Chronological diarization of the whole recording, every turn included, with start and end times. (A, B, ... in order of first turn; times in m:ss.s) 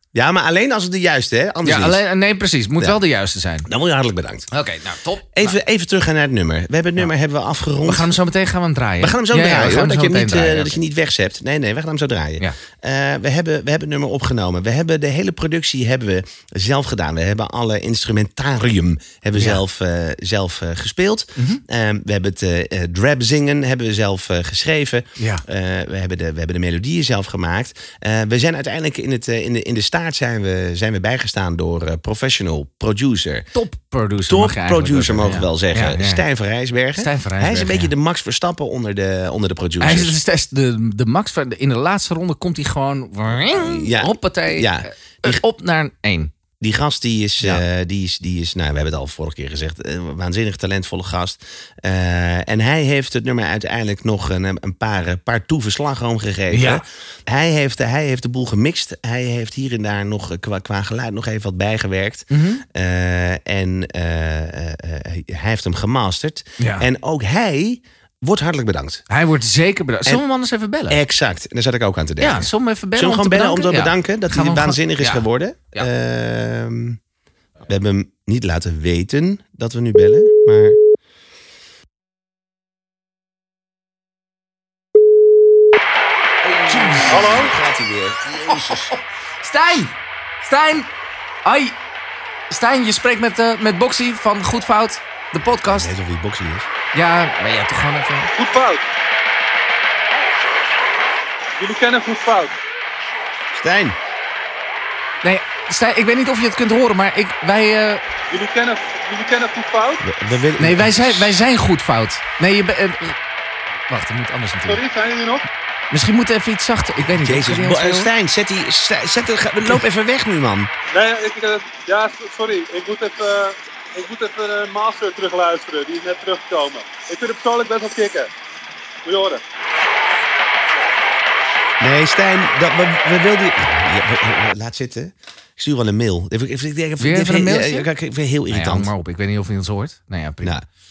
0:00.1-0:02.0 A
0:01.6-0:03.7 B
0:03.6-0:04.5 A
0:04.5-0:05.6 B
0:05.3-0:08.1 A
0:07.8-0:10.8 B
0:09.0-0:33.5 A
0:19.3-0:19.6 B
0:21.4-0:21.6 B
0:25.2-0:25.4 B
0:33.5-0:36.2 B
0:34.2-0:40.2 A
0:37.0-0:37.9 B
0:39.8-0:46.3 B
0:43.5-0:45.4 A
0:46.6-1:09.0 A
0:56.5-0:56.8 B
1:02.3-1:02.6 B
1:06.6-1:06.9 B
1:09.1-1:11.0 B
1:10.9-1:17.0 A
1:12.2-1:15.9 B
1:17.6-1:20.8 A
1:26.4-1:28.9 A
1:26.6-1:27.5 B
1:28.5-1:30.9 B
1:31.4-1:31.8 B
1:32.5-1:35.9 B
1:35.5-1:36.7 A
1:36.9-1:38.3 B
1:38.4-1:38.8 C
1:41.6-1:42.6 C
1:43.5-1:44.0 A
1:45.2-1:48.0 B
1:48.3-1:50.0 C
1:50.0-1:51.4 A
1:50.6-1:53.2 B
1:53.9-1:54.8 B
1:54.7-1:55.4 C
1:55.9-1:58.1 B
1:57.1-2:00.7 A
2:00.9-2:08.3 C
2:09.0-2:09.4 C
2:11.8-2:18.9 A
2:17.0-2:17.9 B
2:18.5-2:20.6 B